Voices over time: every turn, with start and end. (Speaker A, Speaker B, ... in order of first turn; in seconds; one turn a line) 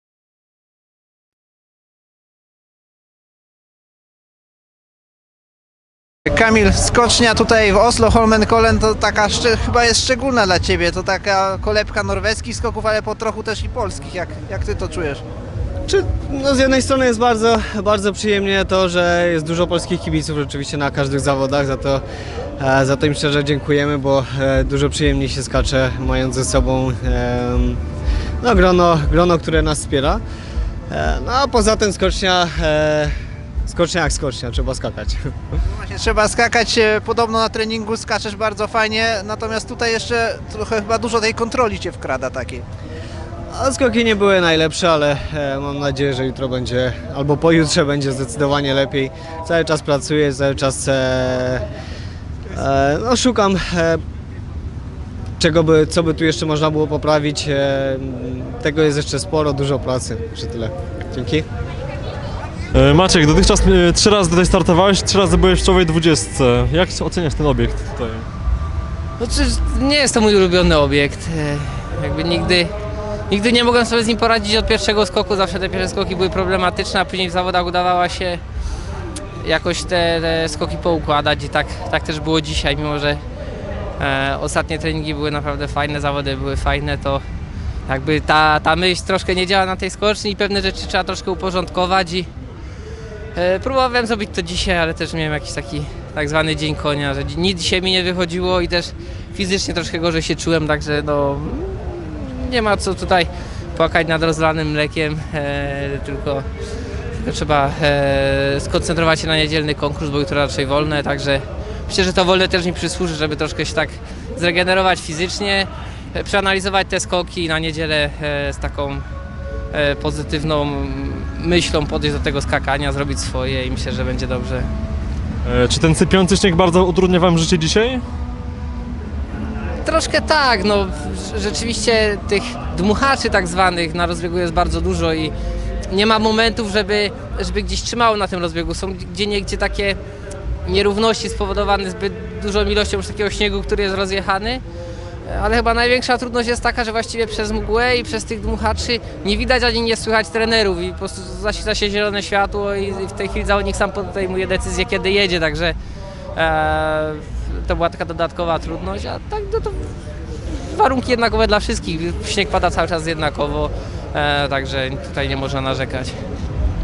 Speaker A: 6.2-15.2
Speaker B: 15.9-22.0
Speaker B: 22.6-27.8
Speaker B: 28.4-30.2
Speaker B: 30.9-33.1
Speaker B: 33.6-35.3
Speaker A: 35.7-42.6
Speaker B: 43.5-51.6
Speaker B: 52.5-54.0
Speaker B: 55.4-61.4
Speaker C: 62.7-68.3
Speaker D: 69.2-72.7
Speaker D: 73.3-78.4
Speaker D: 79.4-83.2
Speaker D: 84.0-87.2
Speaker D: 87.9-92.3
Speaker D: 93.3-106.5
Speaker D: 107.2-119.0
Speaker D: 119.7-124.7
Speaker C: 125.4-128.0
Speaker D: 129.8-135.3
Speaker D: 135.9-140.0
Speaker D: 140.6-144.6
Speaker D: 145.2-155.8
Speaker D: 156.3-159.9
Speaker D: 160.5-166.2